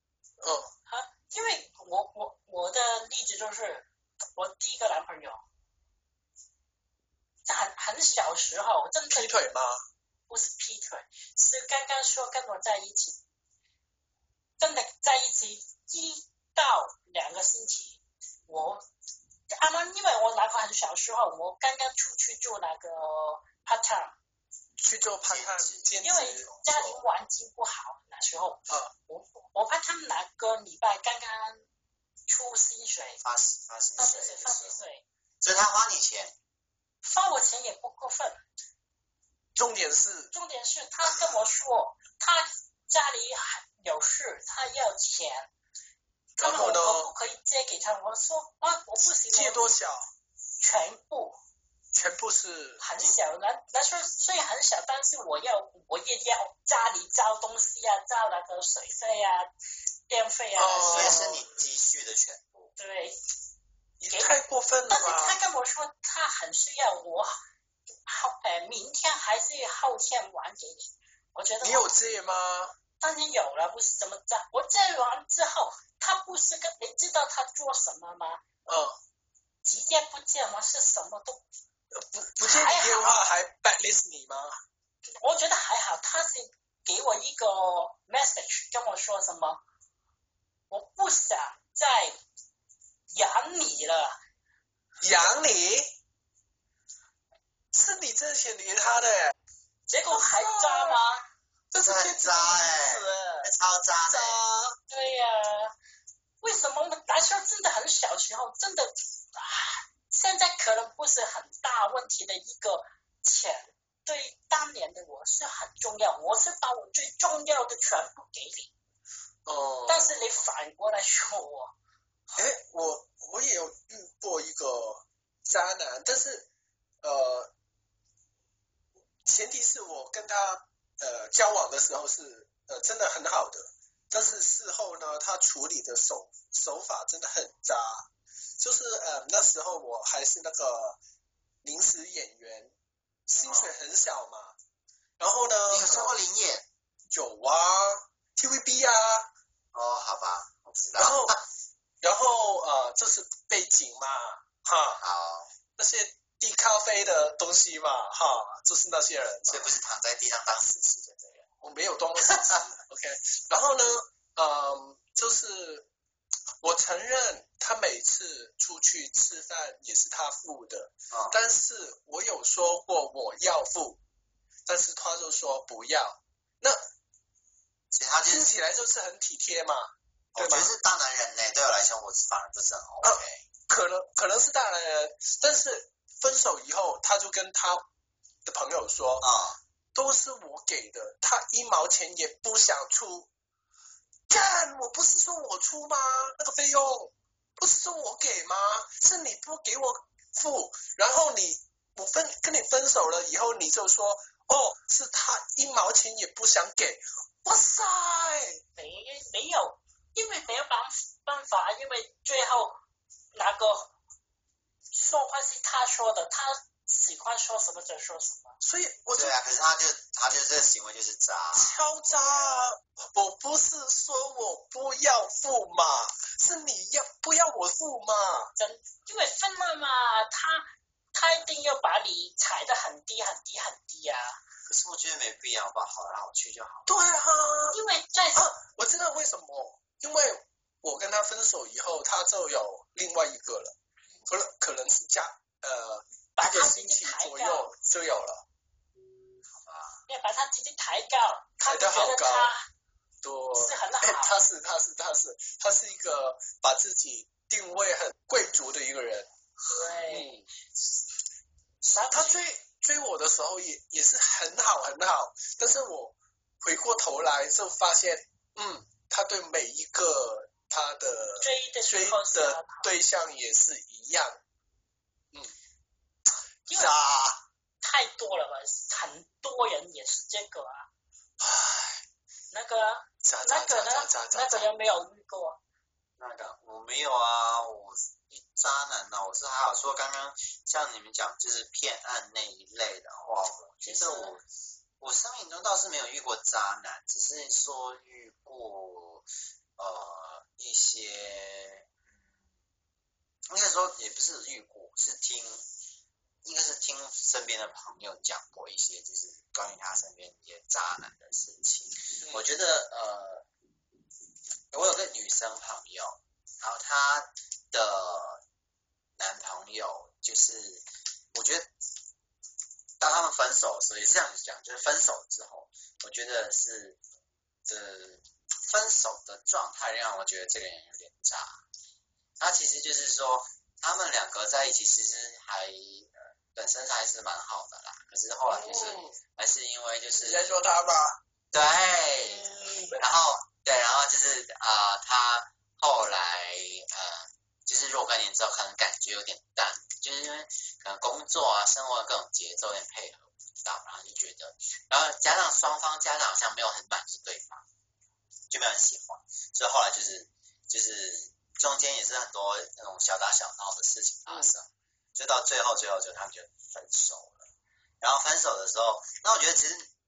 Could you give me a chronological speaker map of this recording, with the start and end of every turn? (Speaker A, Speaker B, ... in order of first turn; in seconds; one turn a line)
Speaker A: 0.4-0.7
Speaker B: 0.9-5.4
Speaker B: 7.5-9.3
Speaker A: 9.1-9.8
Speaker B: 10.3-13.2
Speaker B: 14.6-18.9
Speaker B: 19.5-24.2
Speaker A: 24.8-26.5
Speaker C: 25.2-27.0
Speaker B: 26.0-31.6
Speaker B: 32.3-33.2
Speaker C: 33.2-34.8
Speaker B: 34.0-35.0
Speaker C: 35.4-36.3
Speaker B: 37.0-38.4
Speaker A: 39.5-40.3
Speaker B: 40.3-45.5
Speaker A: 46.4-47.1
Speaker B: 46.4-49.6
Speaker A: 49.0-50.1
Speaker B: 50.6-51.4
Speaker A: 51.9-52.8
Speaker B: 52.8-59.5
Speaker B: 60.1-61.2
Speaker A: 60.6-61.4
Speaker C: 60.9-62.7
Speaker B: 62.8-63.2
Speaker A: 64.0-65.4
Speaker B: 64.1-64.4
Speaker B: 64.9-67.3
Speaker B: 68.1-71.9
Speaker A: 71.6-72.7
Speaker B: 73.0-78.4
Speaker A: 78.7-79.0
Speaker B: 79.6-81.4
Speaker A: 81.9-84.5
Speaker B: 82.4-83.2
Speaker B: 85.2-89.6
Speaker B: 90.7-92.2
Speaker B: 93.1-94.2
Speaker A: 95.0-95.9
Speaker A: 97.7-99.3
Speaker B: 99.9-101.2
Speaker A: 100.1-101.1
Speaker A: 101.7-103.5
Speaker C: 101.8-104.4
Speaker A: 104.1-104.8
Speaker B: 104.9-105.7
Speaker B: 106.4-118.7
Speaker A: 119.5-120.2
Speaker B: 119.9-121.7
Speaker A: 122.3-126.5
Speaker A: 127.0-127.5
Speaker A: 129.2-138.1
Speaker A: 138.6-141.0
Speaker A: 141.6-142.7
Speaker A: 143.3-144.6
Speaker C: 143.4-143.7
Speaker A: 145.2-146.2
Speaker C: 145.7-146.6
Speaker A: 147.1-149.3
Speaker C: 149.7-151.4
Speaker A: 151.0-151.4
Speaker A: 152.0-155.0
Speaker C: 155.0-155.5
Speaker A: 155.8-159.7
Speaker C: 159.5-161.5
Speaker A: 161.6-165.9
Speaker C: 162.2-162.6
Speaker A: 166.6-174.0
Speaker C: 171.1-171.4
Speaker A: 174.7-176.8
Speaker C: 177.9-178.5
Speaker A: 178.2-180.7
Speaker C: 180.3-183.4
Speaker A: 183.0-187.9
Speaker A: 188.4-189.2
Speaker C: 189.2-189.6
Speaker A: 189.9-193.3
Speaker A: 194.3-208.6
Speaker B: 208.8-212.8
Speaker B: 213.3-213.9
Speaker B: 214.9-218.6
Speaker A: 218.6-219.4
Speaker C: 219.1-221.8
Speaker A: 221.6-228.5
Speaker B: 228.6-234.4
Speaker C: 234.7-236.9
Speaker A: 236.9-237.8
Speaker B: 237.7-238.5
Speaker A: 238.3-243.7
Speaker A: 244.3-248.4
Speaker B: 246.4-247.7
Speaker C: 249.5-250.0
Speaker B: 250.1-252.6
Speaker A: 251.6-252.5
Speaker A: 253.2-259.3
Speaker B: 253.6-254.3
Speaker B: 259.6-260.4
Speaker A: 260.1-260.5
Speaker B: 261.9-262.4
Speaker A: 262.1-274.4
Speaker B: 271.4-272.9
Speaker B: 276.7-276.9
Speaker A: 276.7-277.4
Speaker B: 277.8-280.9
Speaker A: 281.4-282.0
Speaker B: 282.5-285.6
Speaker A: 283.2-284.7
Speaker C: 286.2-294.4
Speaker B: 293.8-294.3
Speaker C: 295.0-299.2
Speaker C: 299.8-301.9
Speaker C: 303.5-305.7
Speaker C: 306.4-313.4
Speaker C: 314.7-318.4
Speaker C: 319.2-321.7
Speaker C: 323.0-327.0
Speaker C: 327.6-331.6
Speaker C: 332.4-340.6
Speaker A: 338.5-339.1
Speaker A: 340.2-341.2
Speaker C: 341.5-357.6
Speaker A: 342.3-343.0
Speaker C: 358.5-367.5
Speaker C: 368.0-369.9